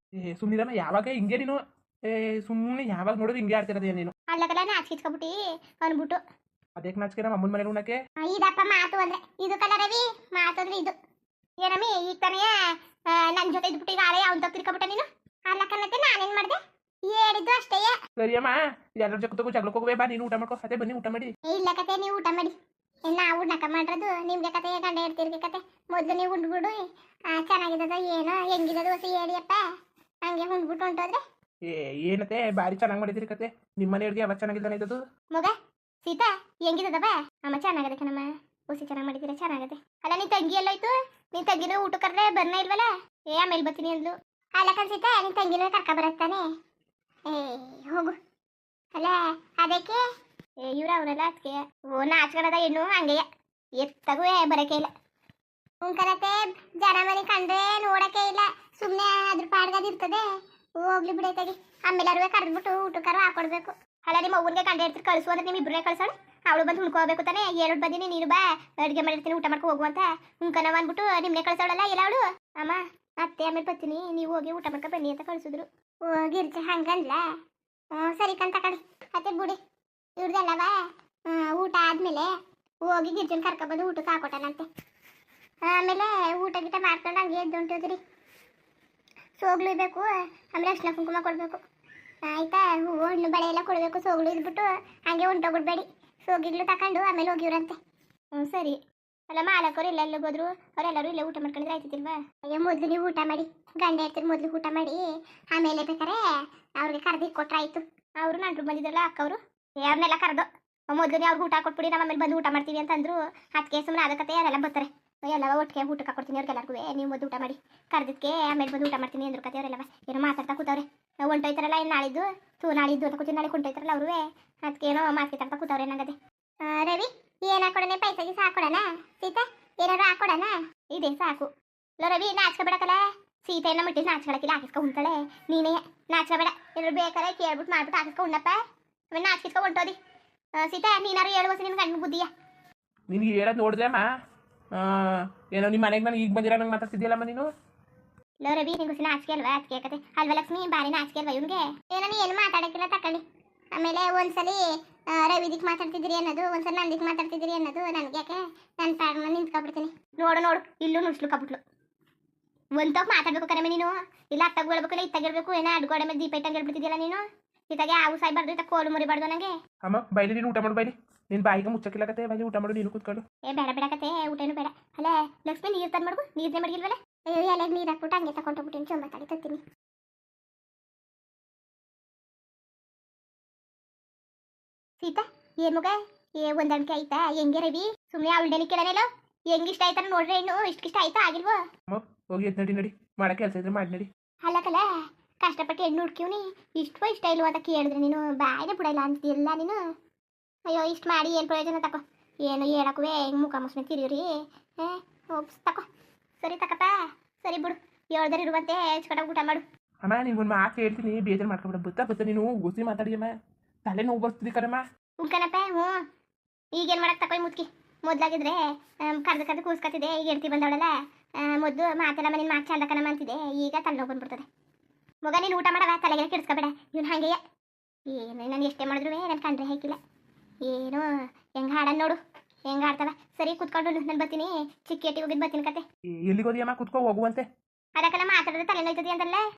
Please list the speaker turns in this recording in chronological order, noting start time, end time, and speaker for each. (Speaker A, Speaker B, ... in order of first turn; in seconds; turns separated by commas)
Speaker A: 0.2-4.1, Speaker B: 4.3-6.2, Speaker A: 6.8-8.0, Speaker B: 8.2-10.9, Speaker B: 11.6-12.6, Speaker B: 13.1-17.9, Speaker A: 18.2-21.3, Speaker B: 21.5-22.5, Speaker B: 23.1-29.6, Speaker B: 30.2-31.2, Speaker A: 31.7-35.0, Speaker B: 35.3-46.5, Speaker B: 47.3-48.1, Speaker B: 48.9-50.0, Speaker B: 50.6-53.2, Speaker B: 53.8-54.9, Speaker B: 55.8-60.2, Speaker B: 60.8-77.2, Speaker B: 77.9-79.6, Speaker B: 80.2-80.7, Speaker B: 81.3-82.3, Speaker B: 82.8-84.7, Speaker B: 85.6-88.0, Speaker B: 89.4-91.6, Speaker B: 92.3-97.8, Speaker B: 98.3-98.8, Speaker B: 99.3-105.0, Speaker B: 105.5-106.2, Speaker B: 106.8-131.5, Speaker B: 132.0-138.6, Speaker B: 139.1-139.9, Speaker B: 140.6-142.3, Speaker A: 143.1-144.0, Speaker A: 144.7-147.5, Speaker B: 148.4-153.2, Speaker B: 153.7-161.6, Speaker B: 162.8-169.5, Speaker A: 169.8-173.2, Speaker B: 173.4-179.6, Speaker B: 185.0-191.6, Speaker A: 191.9-194.1, Speaker B: 194.4-194.8, Speaker B: 195.4-199.8, Speaker B: 200.7-205.8, Speaker B: 206.4-209.6, Speaker A: 210.0-213.3, Speaker A: 213.8-214.8, Speaker B: 215.2-216.0, Speaker B: 216.7-224.4, Speaker B: 225.2-227.4, Speaker B: 228.1-230.0, Speaker B: 230.6-231.1, Speaker B: 231.6-235.8, Speaker A: 236.2-237.4, Speaker B: 238.0-239.4